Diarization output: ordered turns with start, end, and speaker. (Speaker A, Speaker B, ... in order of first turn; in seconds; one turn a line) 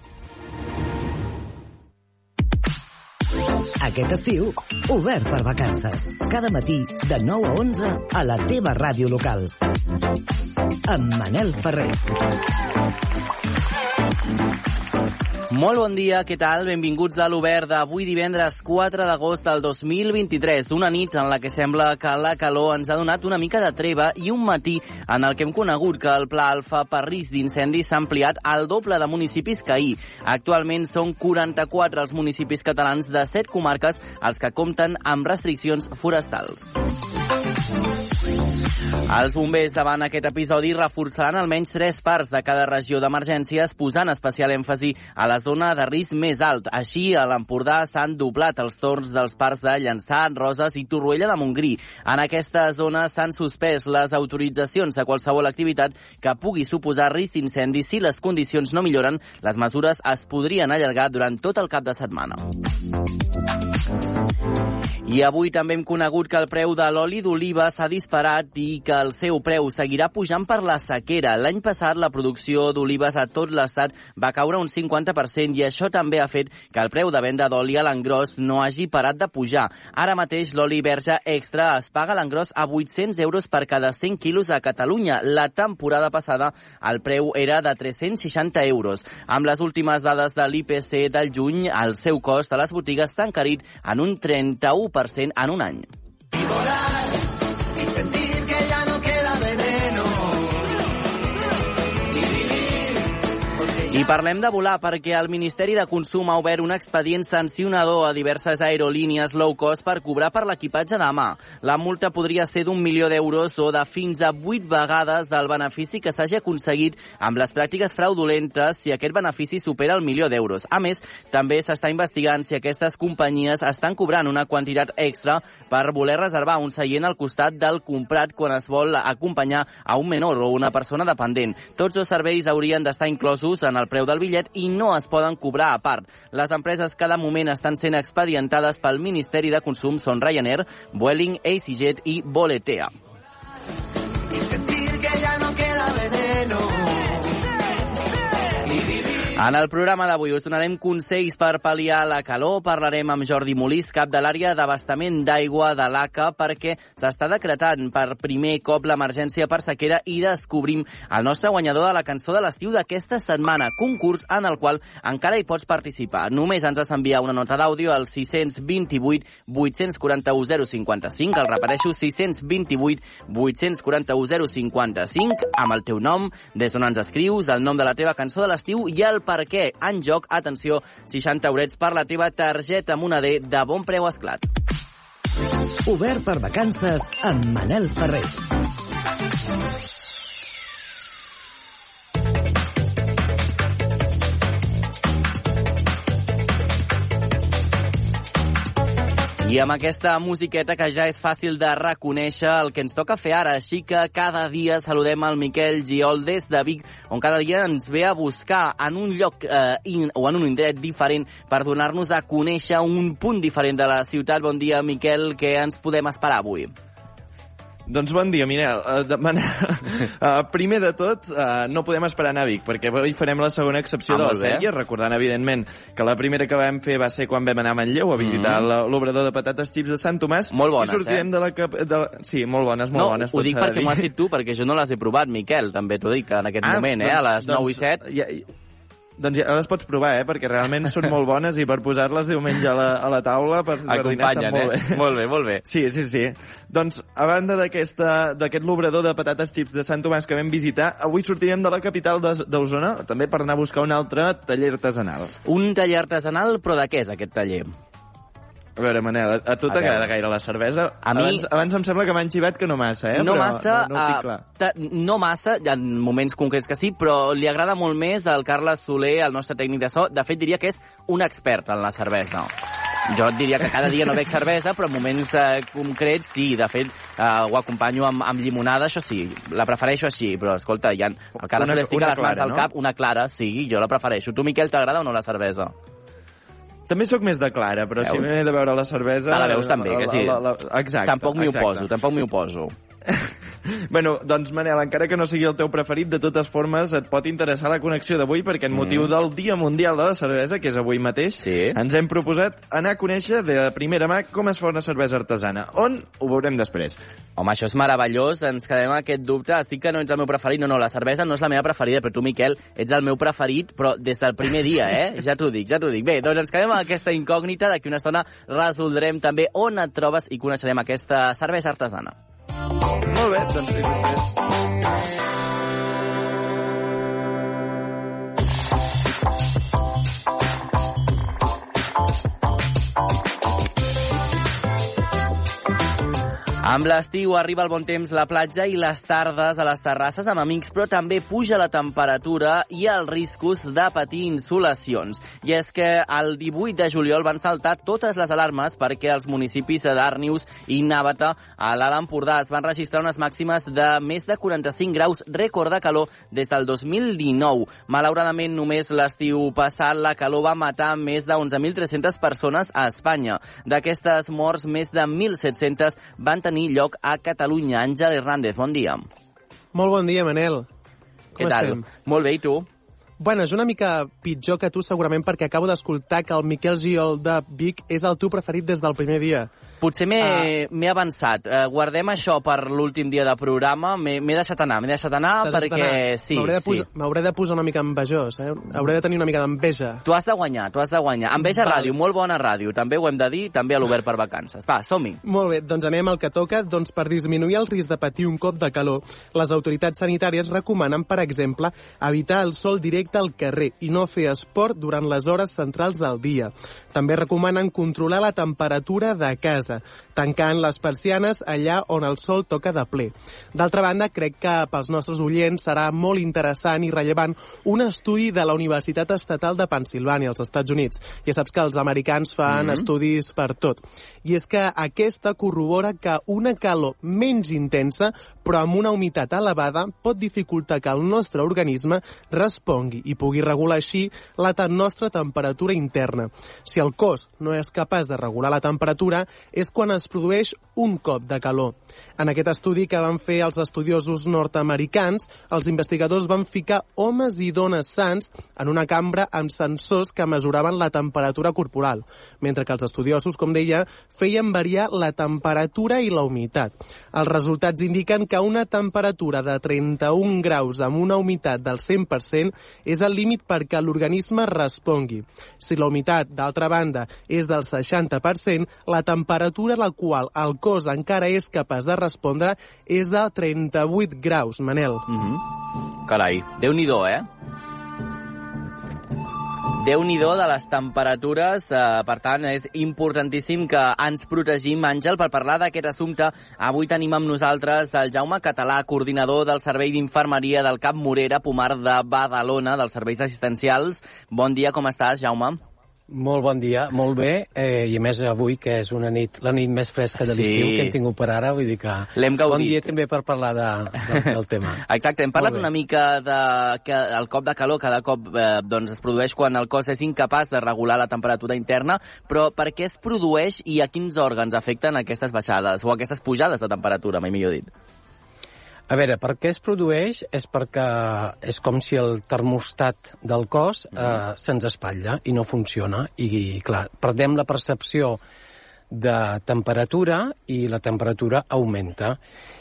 Speaker A: 3.8-9.5
Speaker A: 10.9-12.0
Speaker B: 15.5-36.8
Speaker B: 39.1-62.5
Speaker B: 65.1-95.9
Speaker C: 96.4-97.1
Speaker C: 97.8-100.6
Speaker C: 102.1-103.0
Speaker B: 103.9-142.9
Speaker C: 144.3-147.3
Speaker C: 148.7-148.9
Speaker B: 149.4-184.4
Speaker A: 185.8-188.4
Speaker B: 199.4-216.7
Speaker D: 217.9-234.1
Speaker B: 224.1-224.7
Speaker B: 228.2-228.7
Speaker B: 230.5-231.3
Speaker B: 232.9-238.0
Speaker D: 236.6-238.5
Speaker D: 239.2-245.0
Speaker B: 243.8-245.6
Speaker D: 245.6-255.3
Speaker B: 255.4-257.7
Speaker D: 258.8-264.4
Speaker B: 259.7-260.1
Speaker B: 261.0-261.5
Speaker B: 263.1-272.5
Speaker B: 273.1-285.8
Speaker D: 281.4-282.7
Speaker D: 286.9-291.9
Speaker B: 288.0-288.3
Speaker B: 289.3-290.4
Speaker B: 291.0-292.7
Speaker D: 293.1-307.0
Speaker B: 298.7-299.1
Speaker B: 301.4-301.8
Speaker B: 307.4-322.1
Speaker D: 323.1-324.2
Speaker B: 336.6-369.1
Speaker E: 369.7-370.7
Speaker B: 371.4-372.7
Speaker E: 371.4-371.8
Speaker E: 373.2-379.5
Speaker B: 379.8-386.9
Speaker E: 380.2-380.5
Speaker E: 385.4-390.0
Speaker B: 390.1-395.2
Speaker E: 391.4-391.9
Speaker E: 395.2-475.1
Speaker B: 475.1-475.4
Speaker B: 476.1-477.3
Speaker B: 479.8-495.6
Speaker F: 496.1-504.8
Speaker B: 500.2-500.9
Speaker B: 502.1-502.9
Speaker B: 504.9-517.7
Speaker F: 505.4-505.7
Speaker F: 518.9-528.2
Speaker F: 528.9-532.2